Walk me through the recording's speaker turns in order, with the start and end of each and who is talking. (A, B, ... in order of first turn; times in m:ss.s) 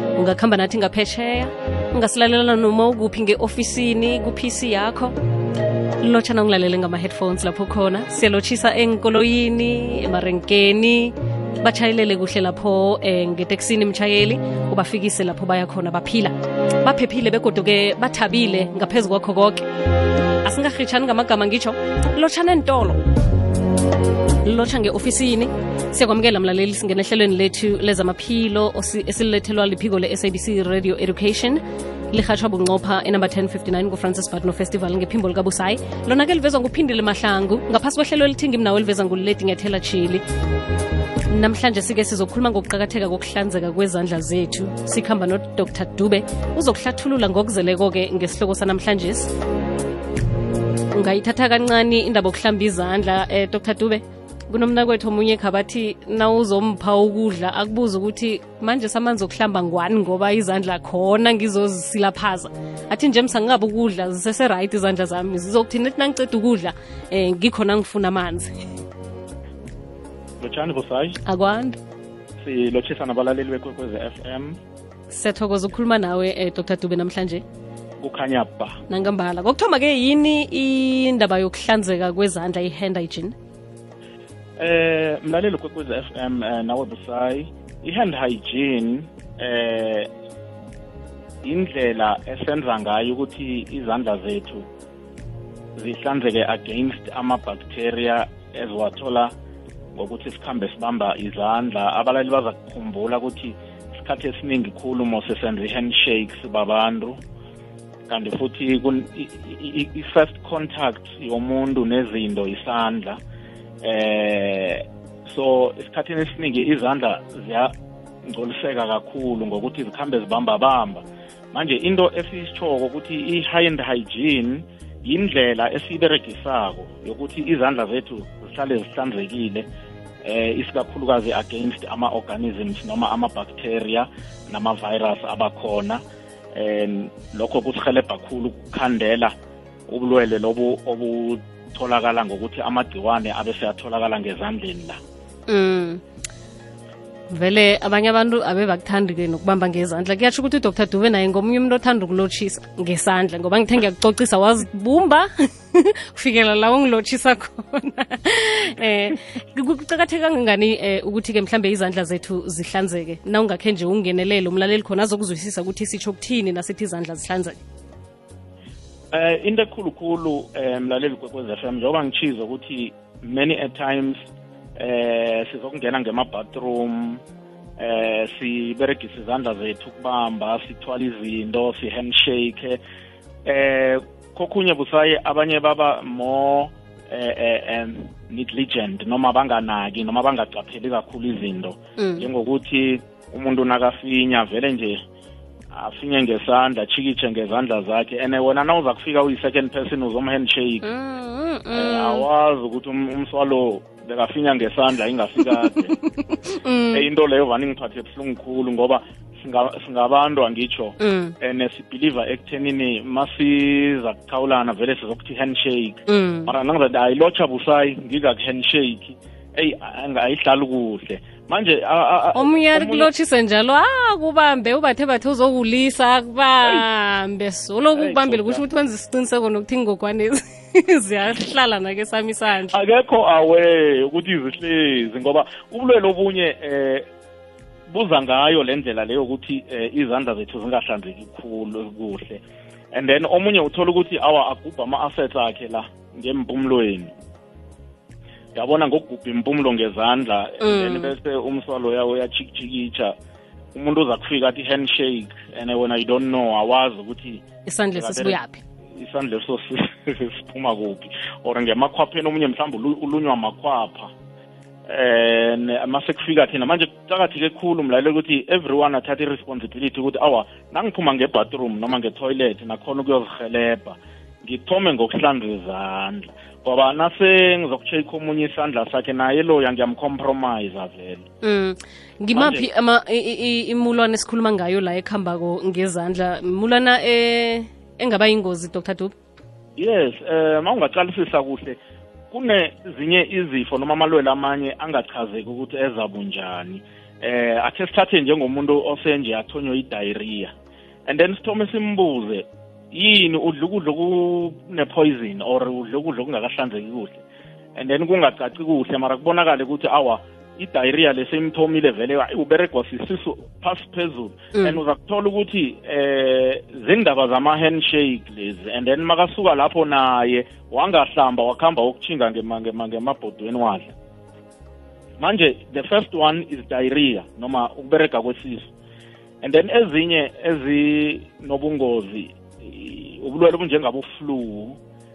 0:00.2-0:05.1 A
0:06.0-0:19.6 A
0:20.4-0:23.0 A
0:24.4-0:40.2 A
0:41.3-0:49.3 A
0:50.9-1:08.5 A
1:10.4-1:11.2 B
1:11.2-1:11.8 A
1:12.4-1:14.6 B
1:15.1-1:17.4 A
1:18.0-1:18.8 B
1:18.9-1:23.3 A
1:24.6-1:30.1 B
1:31.4-1:34.6 B
1:35.8-1:39.3 B
1:39.9-1:47.2 B
1:48.1-1:53.2 B
1:53.8-1:57.7 B
1:58.2-2:09.6 B
2:10.2-2:16.0 B
2:16.5-2:19.3 B
2:19.9-2:25.0 B
2:25.5-2:26.0 A
2:27.3-2:47.6 A
2:49.1-2:54.2 B
2:54.8-2:57.2 B
2:57.8-3:02.8 B
3:03.4-3:15.0 B
3:12.0-3:12.2 A
3:15.7-3:20.8 B
3:20.8-3:22.2 A
3:21.7-3:26.0 B
3:26.2-3:27.0 A
3:26.9-3:43.1 B
3:31.0-3:31.3 A
3:36.1-3:36.5 A
3:42.3-3:52.8 A
3:47.9-3:48.6 B
3:52.7-3:57.1 B
3:57.9-4:07.1 B
4:08.5-4:13.1 B
4:10.6-4:11.1 A
4:13.7-4:17.4 B
4:17.6-4:18.6 A
4:17.9-4:18.4 B
4:19.0-4:24.1 B
4:24.9-4:41.2 B
4:41.4-4:49.1 A
4:42.3-4:42.7 B
4:49.8-4:51.8 B
4:52.3-5:00.5 B
5:01.1-5:07.2 B
5:07.8-5:23.9 B
5:14.5-5:14.8 A
5:25.2-5:28.7 B
5:29.4-5:34.8 B